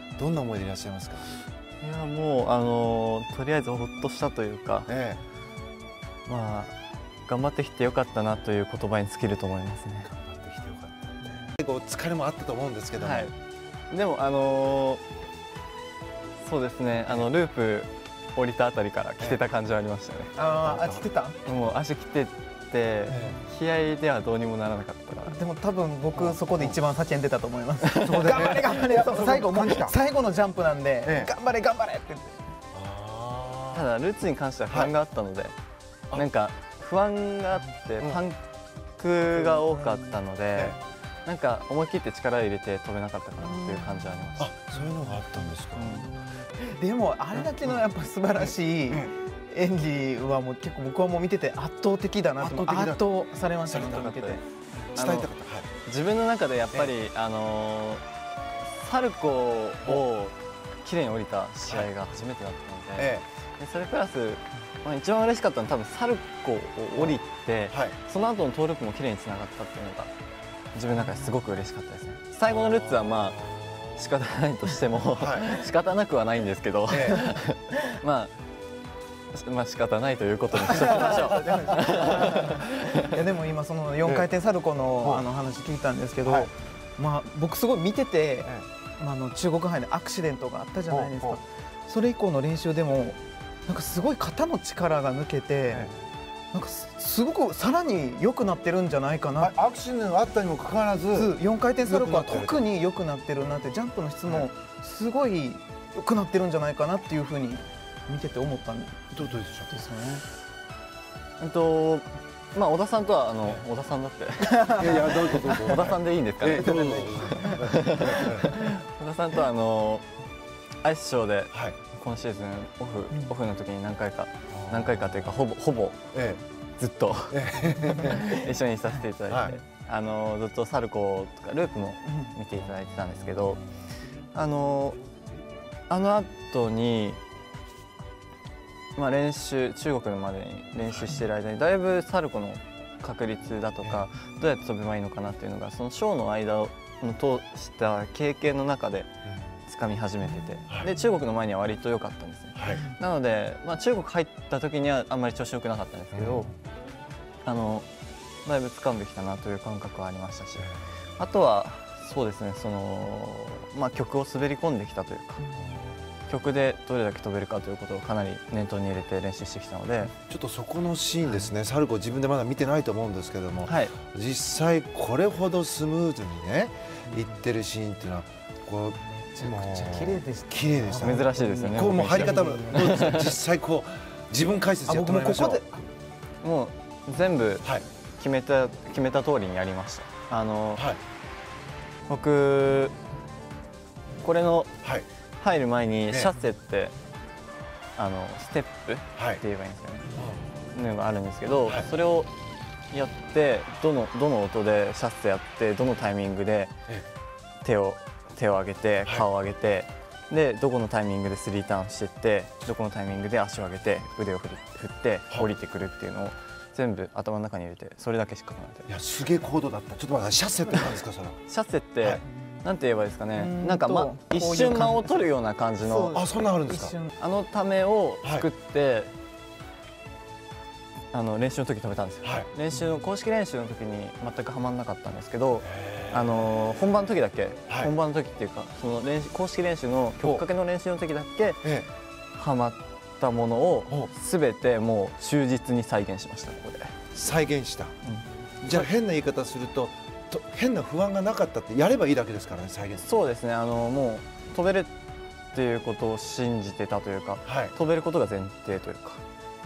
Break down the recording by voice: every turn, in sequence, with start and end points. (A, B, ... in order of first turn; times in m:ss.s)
0:00.2-0:01.4 A
0:01.8-0:04.9 B
0:04.9-0:05.2 A
0:06.2-0:06.7 B
0:07.3-0:10.1 B
0:10.0-0:13.3 A
0:13.0-0:13.3 B
0:13.9-0:15.0 B
0:16.4-0:20.4 B
0:20.4-0:21.4 C
0:20.6-0:21.0 A
0:21.4-0:25.4 B
0:23.1-0:23.4 A
0:25.2-0:32.4 C
0:26.2-0:26.7 A
0:27.8-0:28.5 B
0:28.0-0:29.9 A
0:31.0-0:31.3 A
0:32.7-0:33.8 A
0:33.7-0:35.5 B
0:36.1-0:38.4 B
0:39.0-0:44.5 B
0:39.5-0:40.1 C
0:43.4-0:44.0 C
0:44.4-0:46.1 A
0:45.8-0:46.1 B
0:46.4-0:54.4 C
0:48.4-0:49.1 A
0:52.4-0:53.0 A
0:53.6-0:54.1 A
0:53.9-0:54.4 B
0:54.9-0:55.7 A
0:54.9-0:58.0 B
0:58.6-1:10.1 B
1:01.6-1:01.9 A
1:03.0-1:03.2 A
1:07.7-1:08.0 A
1:10.7-1:18.3 B
1:12.4-1:14.1 A
1:15.1-1:15.5 A
1:16.9-1:17.2 A
1:19.3-1:23.2 B
1:20.6-1:22.4 A
1:20.7-1:35.9 C
1:26.2-1:26.5 A
1:30.9-1:31.4 A
1:35.7-1:36.0 A
1:36.5-1:39.5 C
1:39.4-1:42.6 A
1:41.1-1:49.1 C
1:49.1-1:49.7 A
1:49.7-1:50.2 C
1:51.4-2:00.0 B
1:54.5-1:55.7 C
1:54.7-1:58.5 A
1:56.5-1:57.5 C
2:00.8-2:06.1 B
2:03.1-2:03.4 C
2:04.5-2:05.4 A
2:06.1-2:06.4 A
2:06.8-2:13.6 B
2:07.3-2:08.4 A
2:09.3-2:09.6 A
2:12.1-2:12.3 C
2:14.3-2:15.0 B
2:15.9-2:17.2 B
2:19.0-2:29.1 B
2:29.7-2:36.5 B
2:32.6-2:32.8 A
2:36.1-2:36.5 A
2:37.4-2:37.9 B
2:38.4-2:45.4 B
2:45.5-2:46.0 C
2:45.5-2:46.3 A
2:46.3-2:50.1 B
2:50.3-3:05.6 A
2:53.7-2:53.9 B
2:59.4-3:03.1 C
3:00.9-3:03.4 B
3:04.8-3:05.8 C
3:06.4-3:07.7 B
3:08.2-3:10.8 B
3:12.1-3:12.9 B
3:14.2-3:14.7 B
3:14.8-3:15.1 A
3:15.4-3:16.9 B
3:16.1-3:16.3 A
3:18.0-3:20.1 B
3:19.2-3:19.4 A
3:20.2-3:20.4 A
3:20.7-3:22.3 B
3:22.9-3:26.7 B
3:27.6-3:38.9 B
3:38.9-3:41.4 A
3:41.5-3:46.3 B
3:43.3-3:45.3 C
3:45.8-3:47.1 C
3:46.1-3:47.0 A
3:47.2-3:49.1 B
3:51.1-4:01.7 B
3:52.2-3:52.5 A
3:55.6-3:56.4 A
4:01.6-4:01.9 A
4:02.3-4:07.0 B
4:07.1-4:08.0 A
4:08.0-4:08.9 B
4:08.6-4:13.1 A
4:13.0-4:14.9 B
4:15.5-4:19.2 B
4:17.4-4:17.7 A